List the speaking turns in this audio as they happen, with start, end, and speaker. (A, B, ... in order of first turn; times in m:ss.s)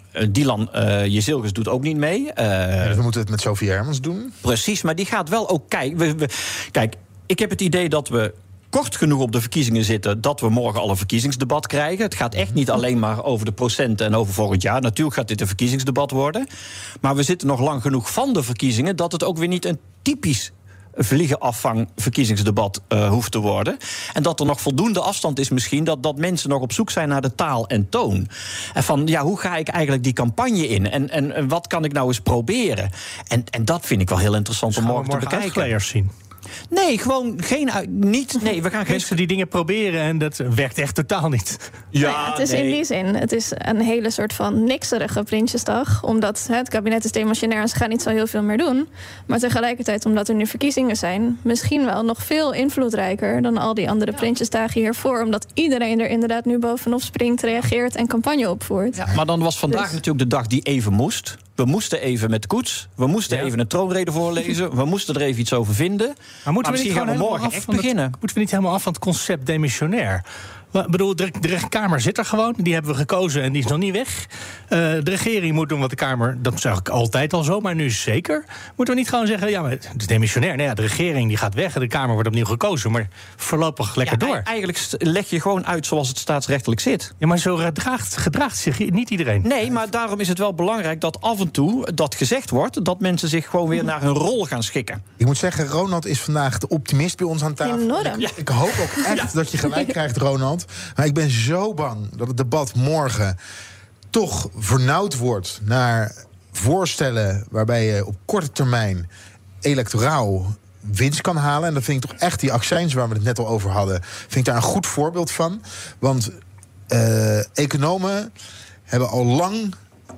0:00.1-0:03.0 A
0:02.8-0:04.4 B
0:04.4-0:16.5 A
0:17.0-0:35.7 A
0:34.7-0:36.1 C
0:36.7-0:39.2 A
0:38.9-0:41.6 C
0:41.9-0:42.8 A
0:42.0-0:59.0 D
0:59.0-1:08.2 A
0:59.7-1:00.0 D
1:06.5-1:24.4 C
1:24.0-1:27.1 A
1:27.2-1:29.5 C
1:29.4-1:35.0 A
1:35.2-1:43.4 B
1:37.6-1:38.3 D
1:38.9-1:39.3 A
1:44.1-1:49.1 B
1:49.6-1:56.4 B
1:56.9-1:58.3 B
1:58.9-1:59.8 B